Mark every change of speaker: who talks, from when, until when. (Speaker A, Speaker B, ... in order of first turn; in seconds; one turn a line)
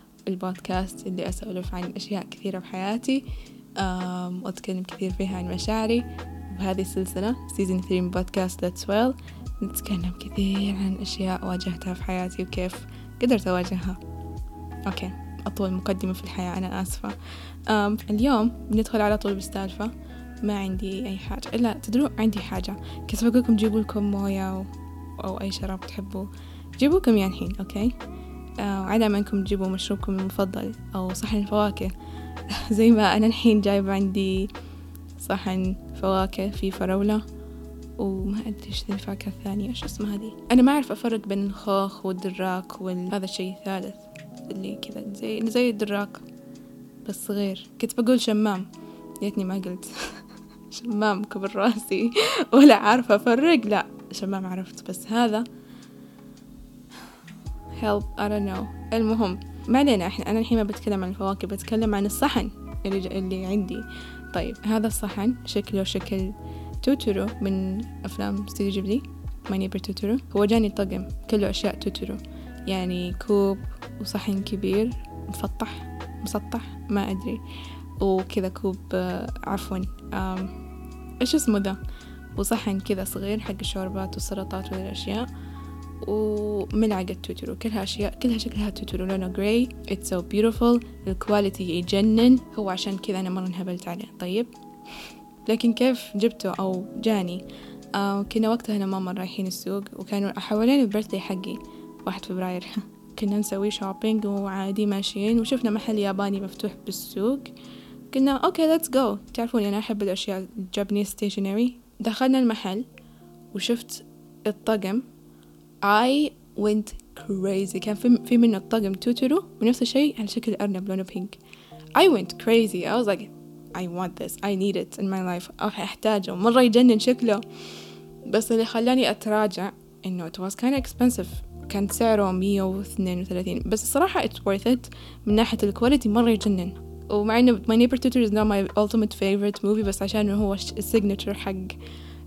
Speaker A: 0.2-14.0
Speaker A: 14.8-28.0
Speaker A: 28.6-31.9
Speaker A: 32.5-34.5
Speaker A: 35.2-37.2
Speaker A: 38.0-46.2
Speaker A: 47.0-48.7
Speaker A: 49.2-50.2
Speaker A: 50.7-55.5
Speaker A: 57.8-77.4
Speaker A: 78.0-80.5
Speaker A: 81.2-81.8
Speaker A: 82.3-85.3
Speaker A: 86.0-94.5
Speaker A: 95.5-107.5
Speaker A: 108.1-112.9
Speaker A: 113.5-115.1
Speaker A: 115.8-121.4
Speaker A: 121.9-127.4
Speaker A: 128.3-141.8